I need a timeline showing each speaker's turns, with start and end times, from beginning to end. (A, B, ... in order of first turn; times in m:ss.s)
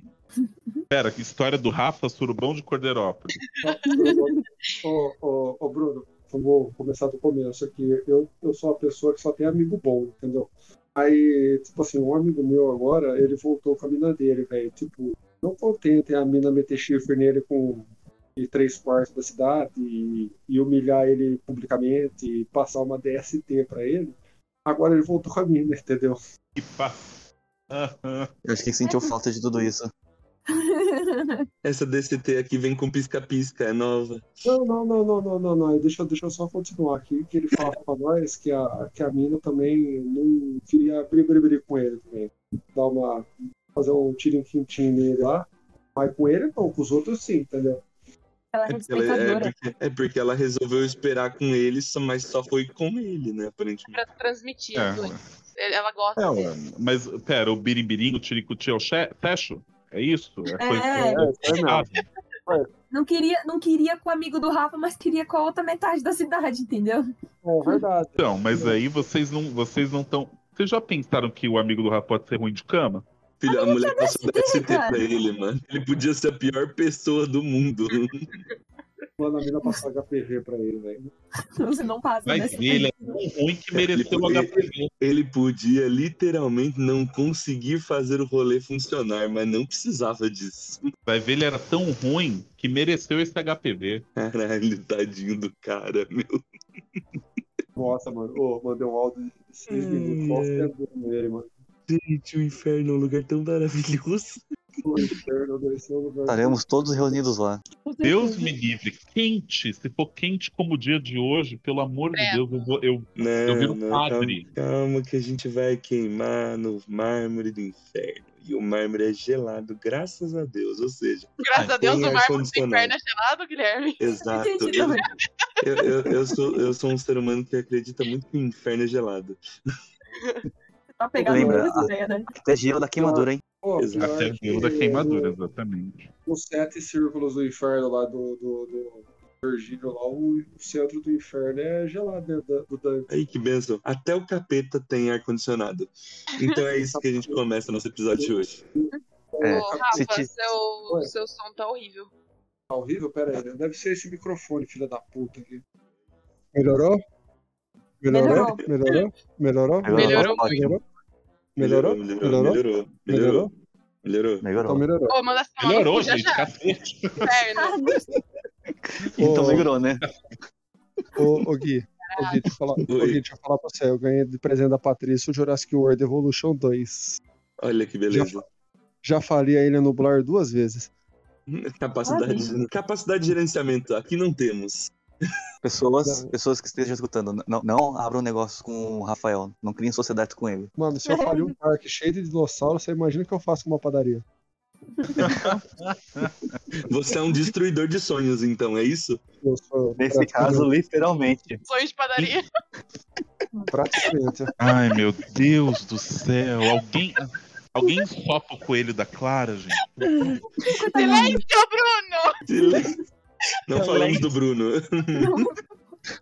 0:00.9-0:03.4 A
0:03.6-0:26.2 B
0:03.9-0:04.2 C
0:26.6-0:28.3 A
0:28.4-0:29.9 D
0:28.8-0:29.1 C
0:30.5-0:31.5 C
0:31.6-0:34.3 E
0:34.4-0:47.8 B
0:48.5-0:49.5 C
0:48.7-0:54.0 E
0:53.9-0:56.5 F
0:54.7-0:55.2 A
0:56.2-1:02.0 A
1:00.6-1:01.3 C
1:01.0-1:01.9 B
1:02.9-1:07.1 C
1:07.4-1:08.8 B
1:08.2-1:13.0 A
1:13.4-1:18.3 E
1:13.5-1:15.0 C
1:19.2-1:21.1 B
1:21.4-1:23.2 C
1:22.3-1:24.9 A
1:23.7-1:30.9 E
1:31.1-1:34.0 A
1:34.2-1:36.4 E
1:37.8-1:41.5 B
1:39.7-1:40.7 E
1:41.9-1:44.5 E
1:44.8-1:47.1 B
1:46.3-1:47.6 D
1:47.8-1:48.5 C
1:48.0-1:54.5 A
1:52.2-1:52.7 F
1:53.2-2:02.9 E
2:01.4-2:04.0 F
2:04.0-2:05.0 E
2:04.3-2:05.0 C
2:05.6-2:09.4 E
2:11.0-2:12.3 C
2:11.2-2:11.7 B
2:11.2-2:13.4 D
2:13.0-2:15.4 B
2:13.8-2:14.4 E
2:14.0-2:16.1 A
2:16.3-2:23.1 B
2:23.1-2:28.6 E
2:26.7-2:27.4 B
2:28.2-2:30.2 B
2:29.4-2:30.3 D
2:29.5-2:32.1 F
2:32.7-2:35.6 B
2:36.6-2:37.0 B
2:38.0-2:40.8 B
2:38.1-2:38.6 C
2:39.8-2:40.8 D
2:39.9-2:40.8 F
2:41.6-2:43.5 B
2:41.6-2:43.5 E
2:44.0-2:44.5 E
2:44.4-2:44.9 D
2:44.6-2:45.2 B
2:45.1-2:46.5 F
2:45.6-2:47.3 A
2:47.2-2:48.0 F
2:47.6-2:48.1 C
2:49.1-2:50.0 D
2:49.2-2:49.6 A
2:49.2-2:49.7 B
2:51.2-2:57.2 B
2:52.1-2:52.4 F
2:52.8-2:53.2 E
2:57.6-2:58.4 E
2:58.1-2:58.4 B
2:59.0-3:00.9 B
3:01.5-3:04.9 E
3:02.0-3:02.5 C
3:05.6-3:10.7 D
3:10.8-3:14.2 B
3:11.0-3:11.5 C
3:15.0-3:15.4 C
3:15.2-3:15.6 B
3:15.2-3:16.4 A
3:16.8-3:19.2 E
3:19.4-3:20.7 B
3:20.0-3:21.6 D
3:21.7-3:22.5 F
3:23.7-3:24.6 B
3:24.6-3:30.1 A
3:30.6-3:31.4 C
3:30.9-3:32.4 F
3:32.5-3:33.0 E
3:33.7-3:35.5 E
3:33.9-3:34.2 A
3:35.2-3:35.6 C